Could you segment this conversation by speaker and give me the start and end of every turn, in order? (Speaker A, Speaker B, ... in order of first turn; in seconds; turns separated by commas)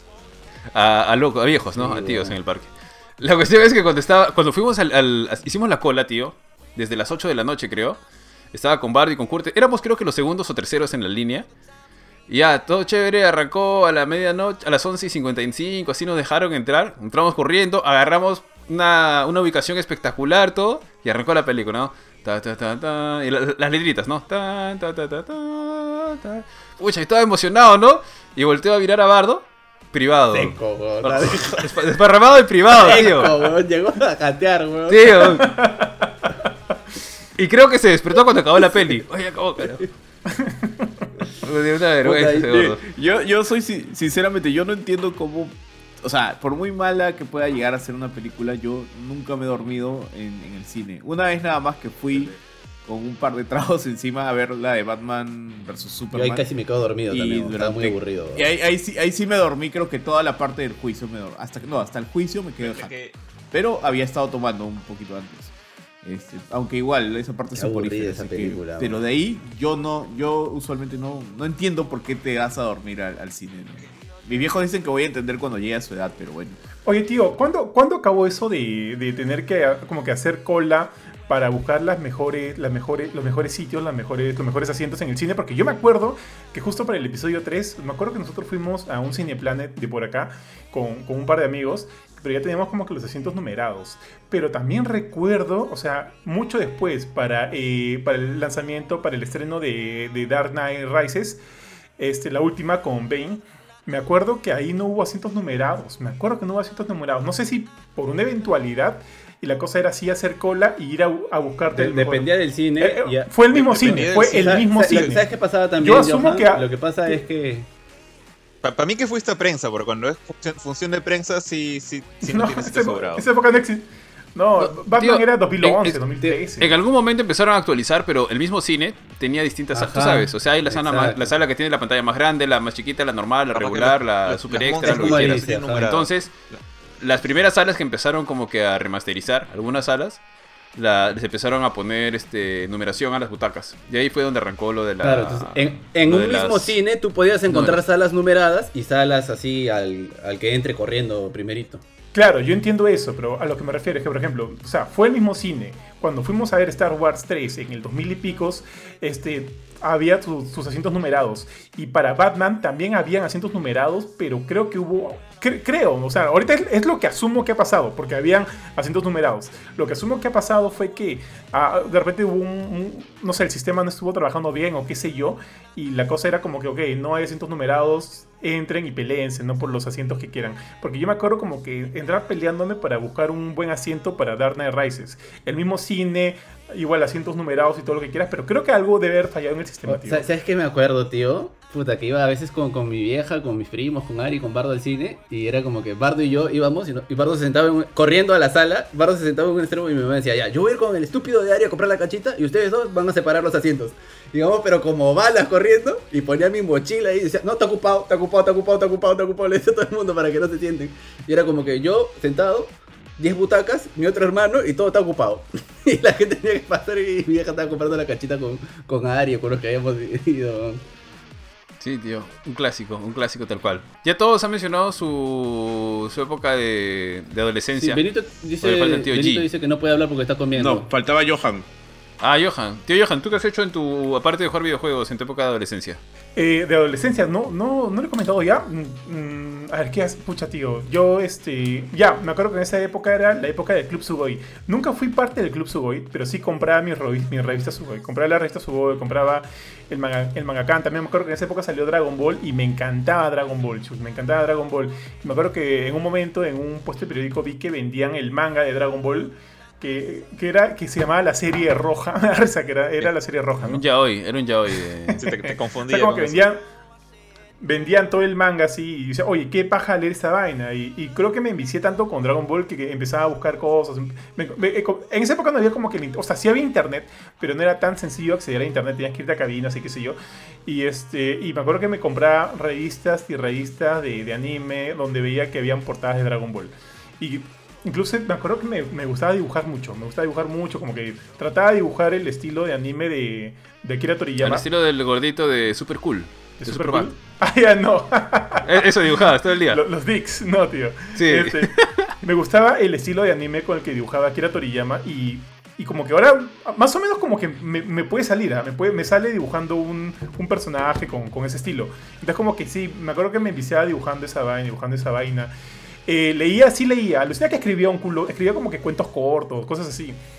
Speaker A: 0.7-8.0, Speaker B: 1.6-2.4, Speaker A: 8.5-11.5, Speaker A: 12.3-33.5, Speaker B: 30.3-31.9, Speaker B: 32.7-35.4, Speaker A: 34.9-35.5, Speaker C: 35.4-36.3, Speaker A: 37.4-39.9, Speaker C: 40.3-40.9, Speaker A: 41.3-42.8, Speaker B: 42.0-42.5, Speaker D: 42.5-56.5, Speaker B: 56.1-58.5, Speaker D: 57.1-62.9, Speaker E: 62.6-63.1, Speaker D: 63.5-76.6, Speaker B: 67.5-69.0, Speaker C: 76.8-101.4, Speaker C: 102.0-117.2, Speaker B: 111.7-117.7, Speaker E: 113.5-115.1, Speaker E: 118.6-123.2, Speaker C: 122.2-126.8, Speaker A: 124.6-136.3, Speaker B: 129.7-131.3, Speaker E: 133.5-136.6, Speaker B: 134.8-135.9, Speaker A: 137.0-140.2, Speaker A: 140.8-146.8, Speaker B: 145.0-151.8, Speaker A: 147.5-147.8, Speaker C: 152.1-190.3, Speaker B: 189.9-220.8, Speaker A: 221.8-228.0, Speaker B: 227.8-230.9, Speaker A: 228.6-229.5, Speaker D: 230.5-231.7, Speaker A: 232.2-236.0, Speaker C: 236.3-263.8, Speaker A: 263.0-265.2, Speaker C: 265.1-266.6, Speaker E: 265.2-266.4, Speaker C: 267.6-294.6, Speaker A: 294.4-297.1, Speaker C: 296.6-315.5, Speaker A: 298.6-299.8, Speaker A: 301.1-301.7, Speaker C: 316.1-320.2